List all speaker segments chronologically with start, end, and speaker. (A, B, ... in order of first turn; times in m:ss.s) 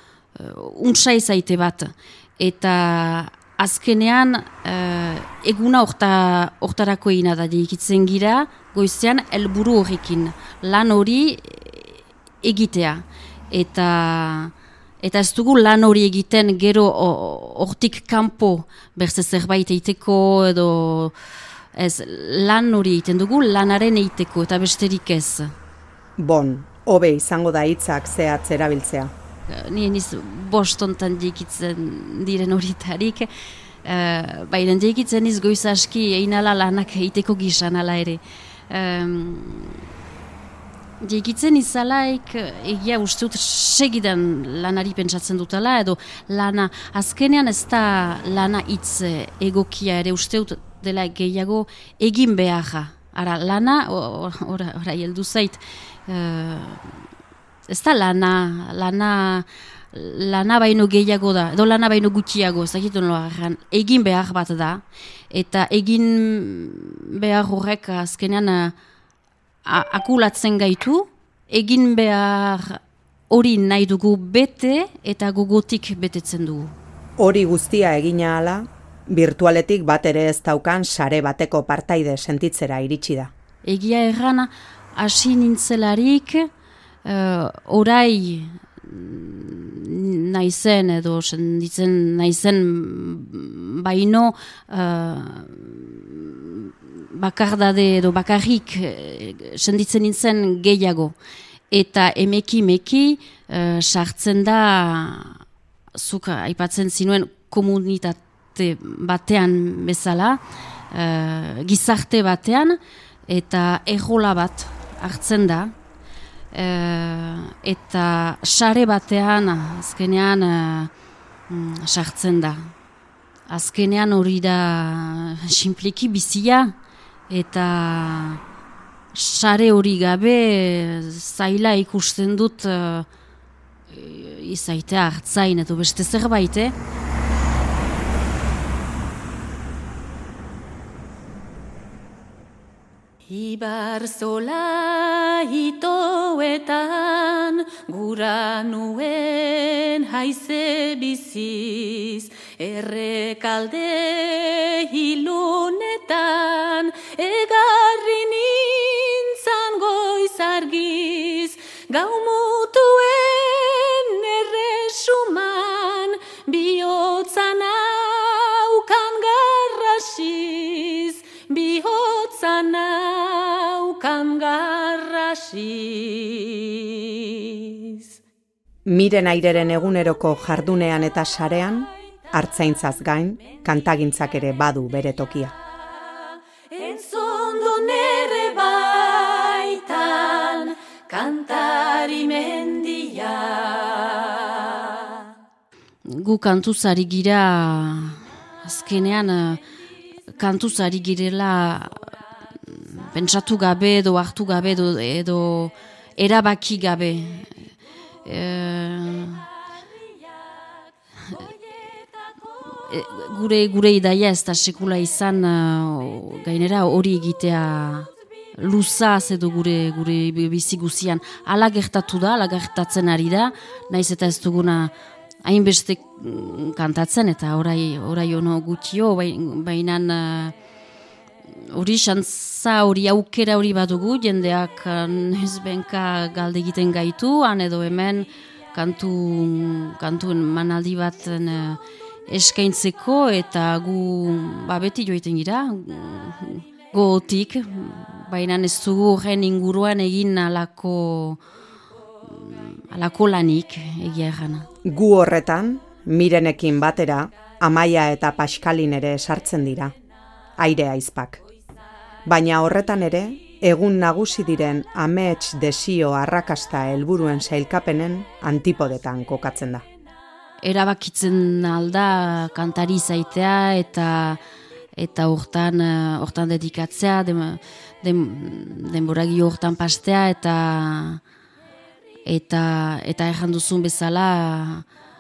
0:00.4-0:21.1 A
0:21.7-0:25.5 A
0:26.2-0:29.1 B
0:29.5-0:33.3 A
0:33.8-0:39.8 A
0:41.0-0:56.9 A
0:57.7-1:08.7 A
1:09.6-1:12.8 A
1:13.3-1:16.7 A
1:17.2-1:23.3 B
1:23.6-1:26.5 A
1:27.0-1:41.1 A
1:41.7-1:45.4 A
1:45.9-1:50.4 A
1:50.9-1:55.7 A
1:56.5-2:00.9 A
2:01.5-2:02.7 A
2:03.5-2:06.7 A
2:07.3-2:08.4 A
2:09.1-2:13.0 A
2:13.9-2:16.7 A
2:23.3-2:58.1 C
2:58.8-3:05.5 B
3:06.7-3:14.4 C
3:16.0-3:19.6 A
3:20.3-3:22.0 A
3:22.6-3:27.5 A
3:28.2-3:29.4 A
3:32.9-3:44.9 A
3:45.4-3:50.5 A
3:51.7-4:11.4 A
4:12.3-4:14.7 A
4:14.8-4:19.9 B
4:20.6-4:21.4 B
4:22.2-4:29.8 B
4:30.6-4:34.4 A
4:35.0-4:41.2 A
4:42.2-4:44.8 A